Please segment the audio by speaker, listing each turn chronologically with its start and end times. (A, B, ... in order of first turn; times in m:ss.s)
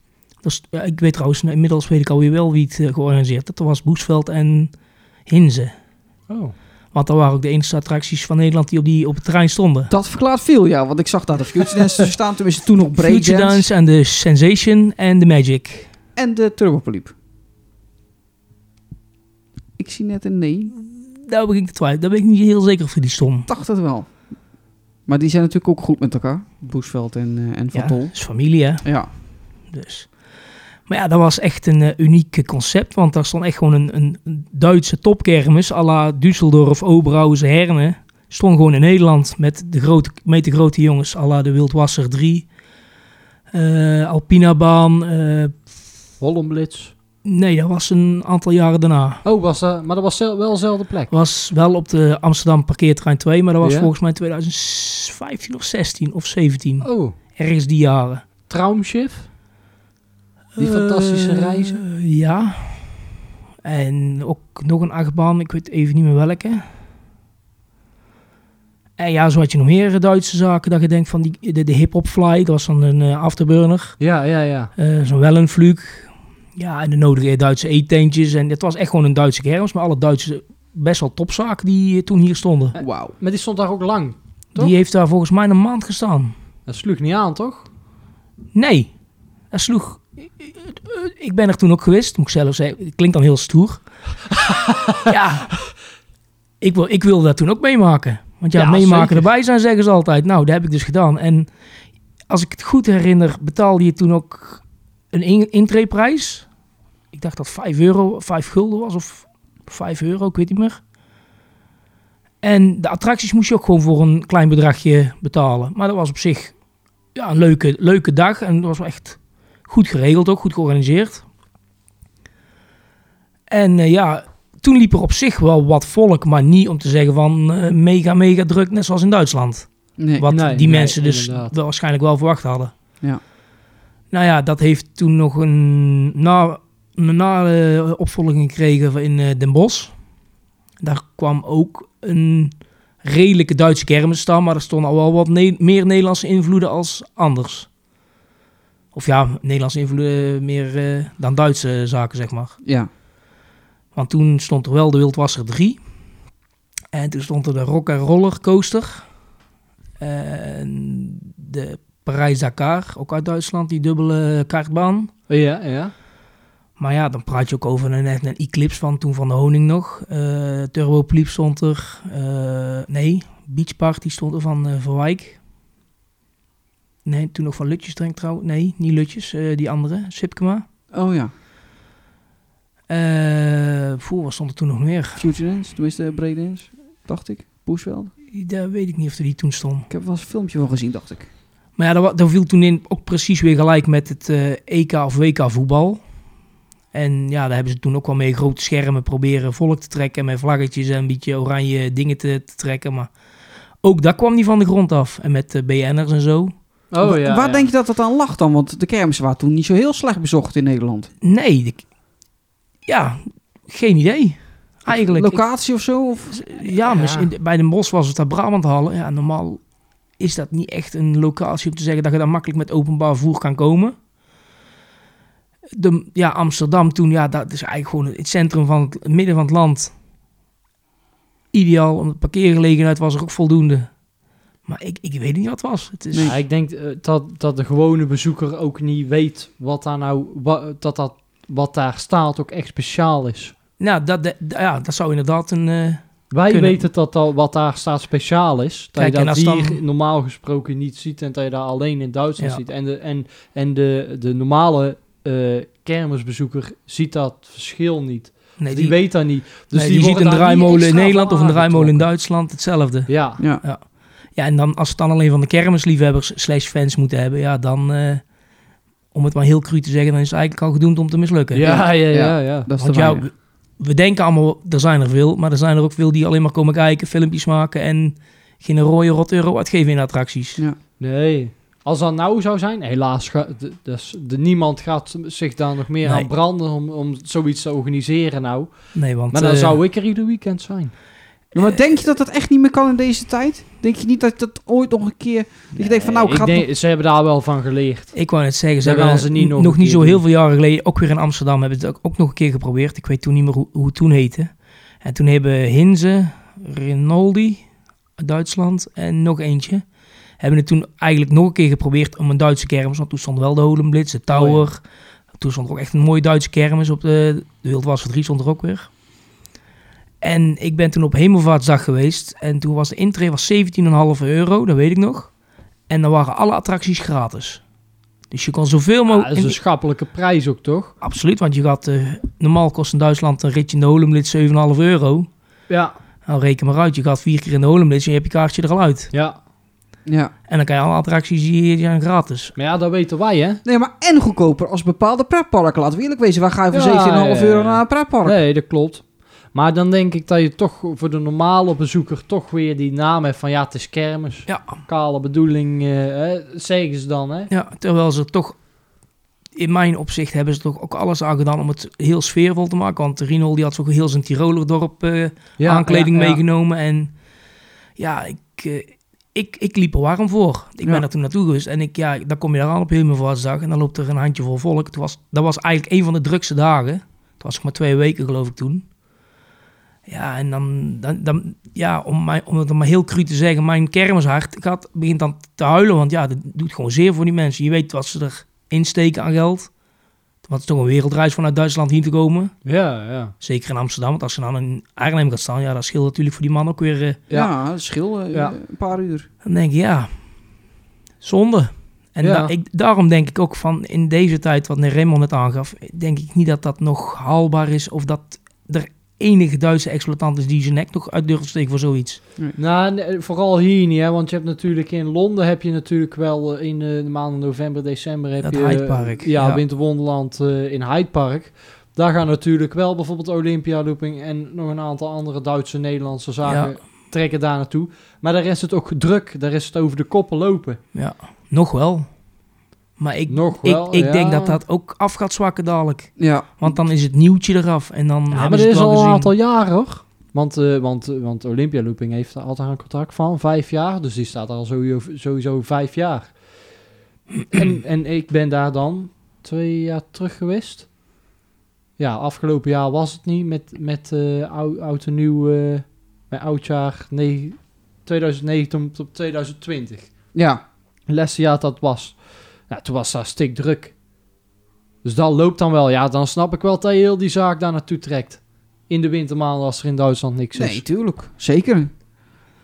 0:00.4-0:04.7 A
0:05.3-0:05.7 A
0:06.3-0:06.5 B
0:06.9-0:09.9 A
0:09.9-0:13.6 C
0:13.0-0:15.9 A
0:16.2-0:17.1 C
0:19.8-0:20.7 C
0:20.8-0:23.5 A
0:23.5-0:24.1 C
0:25.1-0:28.2 C
0:27.7-0:29.0 A
0:28.8-0:29.1 C
0:29.7-0:30.1 A
0:30.9-0:42.5 A
0:43.5-0:45.6 A
0:46.2-0:46.9 B
0:47.2-0:49.2 A
0:49.2-0:51.1 B
0:51.1-0:58.2 A
0:53.6-0:53.9 B
0:56.8-0:57.2 B
0:58.5-0:59.3 B
1:00.6-1:03.0 A
1:00.6-1:01.8 B
1:03.6-1:06.7 A
1:09.0-1:14.0 A
1:14.0-1:14.7 B
1:14.8-1:22.7 A
1:22.8-1:24.7 B
1:22.8-1:23.1 C
1:24.6-1:26.3 A
1:26.7-1:27.7 B
1:28.5-1:28.9 A
1:29.5-1:33.8 A
1:34.5-1:35.0 B
1:35.0-1:35.6 A
1:36.6-1:41.5 A
1:38.5-1:39.3 B
1:42.3-1:46.4 A
1:47.1-1:50.8 A
1:52.4-1:56.5 A
1:57.1-2:01.2 A
2:03.5-2:12.7 A
2:10.0-2:10.2 C
2:10.3-2:11.5 B
2:14.1-2:19.9 A
2:20.8-2:22.5 A
2:23.0-2:27.7 A
2:28.9-2:32.5 A
2:32.6-2:32.9 C
2:33.9-2:35.8 A
2:36.9-2:39.0 A
2:40.0-2:45.1 A
2:45.3-2:45.9 B
2:46.8-2:55.4 A
2:57.0-3:00.6 A
3:00.9-3:01.3 C
3:02.9-3:05.3 A
3:05.2-3:08.1 C
3:08.3-3:09.9 A
3:09.9-3:11.3 C
3:11.8-3:16.0 A
3:16.9-3:23.1 A
3:23.8-3:26.5 A
3:26.9-3:27.7 B
3:27.0-3:31.1 C
3:31.2-3:31.8 A
3:32.8-3:35.4 A
3:34.9-3:36.5 C
3:36.3-3:39.6 A
3:36.9-3:37.2 B
3:40.2-3:44.0 A
3:45.7-3:49.9 A
3:51.5-3:53.9 A
3:54.6-3:56.3 A
3:56.1-3:56.4 C
3:56.2-4:03.5 B
4:03.8-4:06.8 A
4:06.3-4:22.1 B
4:09.0-4:09.8 A
4:18.6-4:23.8 A
4:23.1-4:23.4 B
4:24.3-4:28.2 A
4:29.1-4:31.8 A
4:31.5-4:32.7 B
4:31.6-4:33.2 C
4:32.8-4:40.6 A
4:41.0-4:50.9 B
4:48.9-4:49.8 A
4:51.5-4:56.6 C
4:55.8-4:58.2 B
4:58.1-5:04.5 A
4:58.8-5:00.2 B
5:05.0-5:07.6 A
5:08.2-5:09.8 A
5:10.4-5:14.8 A
5:14.3-5:14.7 B
5:15.4-5:18.9 A
5:20.2-5:25.3 A
5:25.9-5:27.6 A
5:28.3-5:29.6 A
5:29.1-5:30.9 B
5:31.0-5:35.3 A
5:35.7-5:35.9 B
5:36.2-5:39.1 A
5:39.1-5:39.4 B
5:40.0-5:40.3 C
5:40.5-5:42.5 A
5:42.6-5:43.6 B
5:43.6-5:48.4 C
5:46.7-5:57.5 B
5:54.5-5:54.8 A
5:57.5-5:58.6 A
5:59.6-6:07.1 A
6:05.6-6:06.4 B
6:08.0-6:18.8 A
6:20.1-6:29.7 A
6:30.4-6:32.5 A
6:32.6-6:33.3 B
6:33.4-6:37.2 A
6:37.3-6:39.3 C
6:39.4-6:40.1 A
6:41.2-6:52.2 A
6:42.2-6:42.5 B
6:52.6-7:10.8 B
6:58.4-6:59.6 A
7:06.4-7:06.7 A
7:10.9-7:12.1 A
7:13.0-7:19.3 A
7:13.3-7:14.6 B
7:16.2-7:16.7 C
7:18.3-7:26.4 B
7:27.5-7:30.9 B
7:32.0-7:40.1 B
7:40.3-7:40.6 C
7:41.1-7:43.9 B
7:45.0-7:50.8 B
7:50.5-7:51.9 C